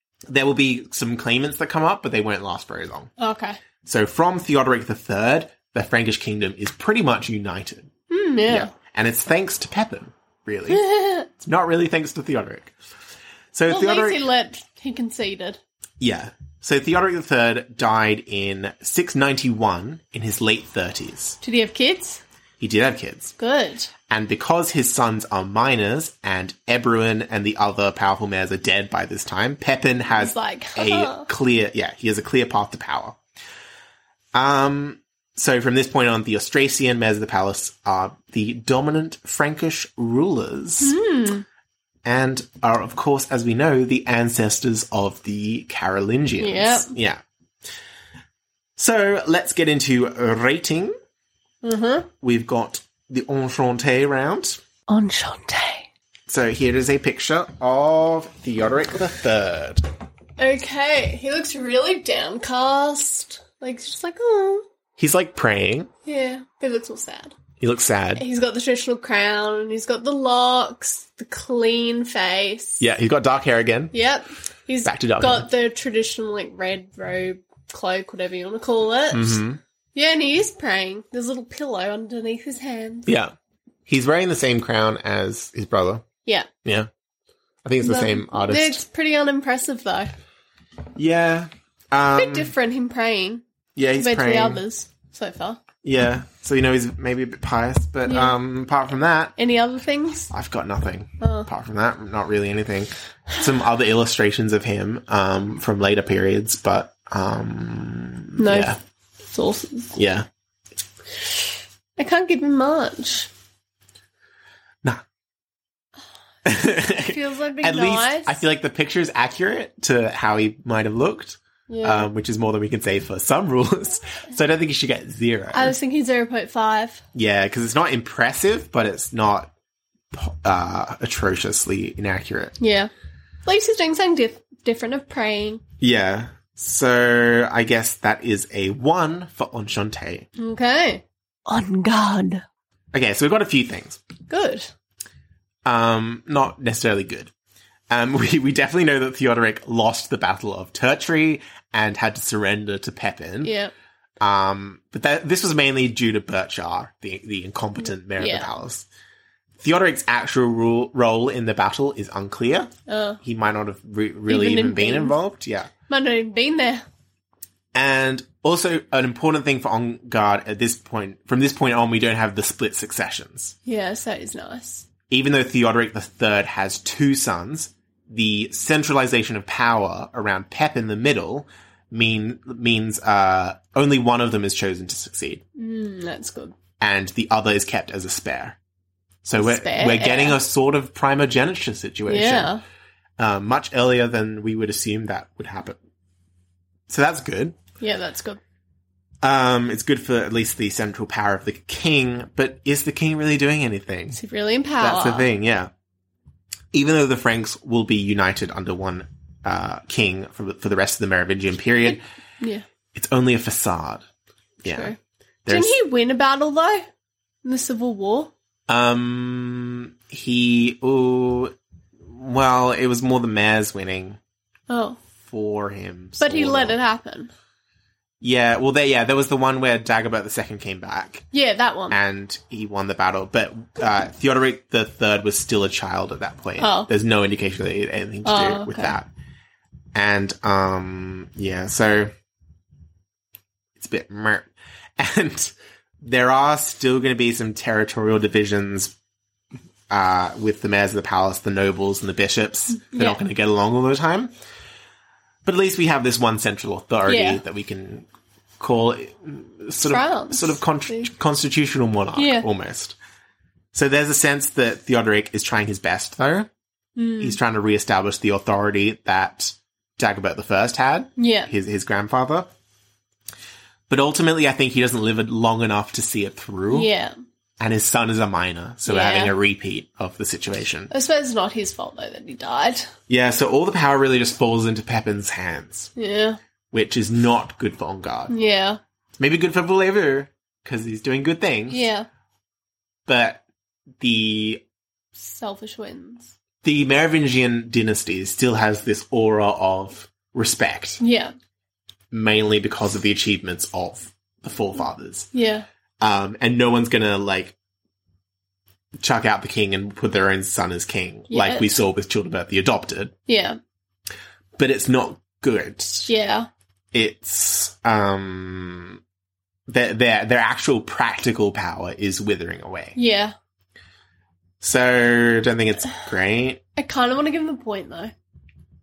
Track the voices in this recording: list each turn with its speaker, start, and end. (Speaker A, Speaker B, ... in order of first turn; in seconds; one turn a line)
Speaker A: 0.3-3.1
Speaker B: 3.2-3.6
Speaker A: 3.8-7.9
Speaker B: 8.1-8.7
Speaker A: 8.5-12.7
Speaker B: 10.7-11.3
Speaker A: 13.5-14.2
Speaker B: 13.7-15.6
Speaker A: 16.0-21.4
Speaker B: 21.4-22.2
Speaker A: 22.6-23.3
Speaker B: 23.4-23.9
Speaker A: 24.1-33.2
Speaker B: 30.1-31.3
Speaker A: 34.3-40.9
Speaker B: 40.8-41.4
Speaker A: 42.0-47.2
Speaker B: 46.4-46.9
Speaker A: 48.8-51.0
Speaker B: 51.6-52.1
Speaker A: 52.2-54.6
Speaker B: 54.9-55.9
Speaker A: 56.3-59.8
Speaker B: 60.4-64.6
Speaker A: 65.0-65.9
Speaker B: 66.0-67.3
Speaker A: 67.6-68.2
Speaker B: 68.2-72.8
Speaker A: 72.8-73.9
Speaker B: 73.9-79.4
Speaker A: 74.8-75.5
Speaker A: 79.1-79.6
Speaker B: 79.9-83.1
Speaker A: 83.0-83.3
Speaker A: 83.9-86.0
Speaker A: 87.6-88.8
Speaker B: 87.8-90.1
Speaker A: 91.0-92.5
Speaker B: 92.1-93.4
Speaker A: 93.8-94.6
Speaker B: 94.0-95.6
Speaker A: 95.8-99.3
Speaker B: 98.0-98.3
Speaker B: 99.4-100.3
Speaker A: 100.3-108.8
Speaker B: 101.2-101.5
Speaker B: 108.4-108.8
Speaker B: 109.3-109.9
Speaker A: 109.9-110.2
Speaker B: 112.0-113.3
Speaker A: 116.4-125.7
Speaker B: 116.9-118.4
Speaker B: 121.7-122.1
Speaker B: 125.5-127.0
Speaker A: 127.1-129.5
Speaker A: 130.1-132.6
Speaker B: 132.6-132.9
Speaker B: 133.4-135.6
Speaker A: 135.8-140.3
Speaker B: 140.4-142.4
Speaker A: 142.9-144.0
Speaker B: 144.3-144.7
Speaker A: 145.6-147.3
Speaker A: 147.9-153.5
Speaker B: 153.4-153.7
Speaker A: 154.2-158.8
Speaker B: 158.2-158.5
Speaker A: 159.6-165.7
Speaker B: 162.9-163.2
Speaker B: 164.3-165.1
Speaker B: 165.9-166.8
Speaker A: 167.7-173.5
Speaker B: 173.7-174.8
Speaker A: 175.1-185.4
Speaker B: 185.6-186.6
Speaker A: 186.8-188.6
Speaker A: 189.2-192.5
Speaker B: 189.4-190.4
Speaker B: 192.1-192.6
Speaker A: 193.2-195.8
Speaker A: 196.9-197.6
Speaker B: 197.8-198.4
Speaker A: 199.2-204.2
Speaker B: 204.1-205.3
Speaker A: 204.8-205.7
Speaker A: 206.7-212.0
Speaker B: 211.9-212.6
Speaker A: 212.9-214.0
Speaker A: 214.6-214.9
Speaker B: 214.6-214.9
Speaker A: 215.4-215.7
Speaker B: 215.5-216.9
Speaker B: 217.4-218.3
Speaker A: 218.7-221.5
Speaker A: 222.1-224.2
Speaker B: 224.7-225.0
Speaker A: 225.3-226.8
Speaker B: 226.2-227.3
Speaker A: 228.2-231.3
Speaker B: 231.3-232.0
Speaker A: 231.9-239.1
Speaker B: 236.6-236.9
Speaker B: 238.2-238.9
Speaker A: 239.9-242.1
Speaker A: 243.8-244.5
Speaker A: 245.0-248.9
Speaker A: 249.9-254.3
Speaker B: 252.8-253.2
Speaker A: 255.4-258.1
Speaker B: 257.1-257.4
Speaker A: 258.6-262.9
Speaker B: 259.8-261.1
Speaker B: 262.1-262.4
Speaker A: 263.7-266.5
Speaker B: 266.9-267.4
Speaker A: 267.2-272.5
Speaker B: 271.2-271.5
Speaker A: 273.9-276.9
Speaker B: 276.7-277.1
Speaker A: 277.6-280.9
Speaker B: 278.9-279.3
Speaker B: 280.9-282.9
Speaker A: 283.1-285.9
Speaker B: 285.9-286.4
Speaker A: 286.7-288.3
Speaker B: 288.3-288.8
Speaker A: 289.2-291.8
Speaker B: 291.7-292.1
Speaker A: 293.1-293.4
Speaker A: 294.0-294.6
Speaker B: 295.2-296.3
Speaker A: 296.6-301.0
Speaker B: 301.0-301.3
Speaker A: 302.1-305.3
Speaker B: 305.3-305.6
Speaker A: 306.0-307.5
Speaker A: 309.0-313.1
Speaker B: 311.3-311.7
Speaker B: 313.3-313.6
Speaker A: 314.6-316.1
Speaker B: 316.1-316.5
Speaker A: 316.9-319.0
Speaker A: 319.7-322.9
Speaker B: 322.9-323.3
Speaker A: 324.6-326.6
Speaker B: 326.8-328.1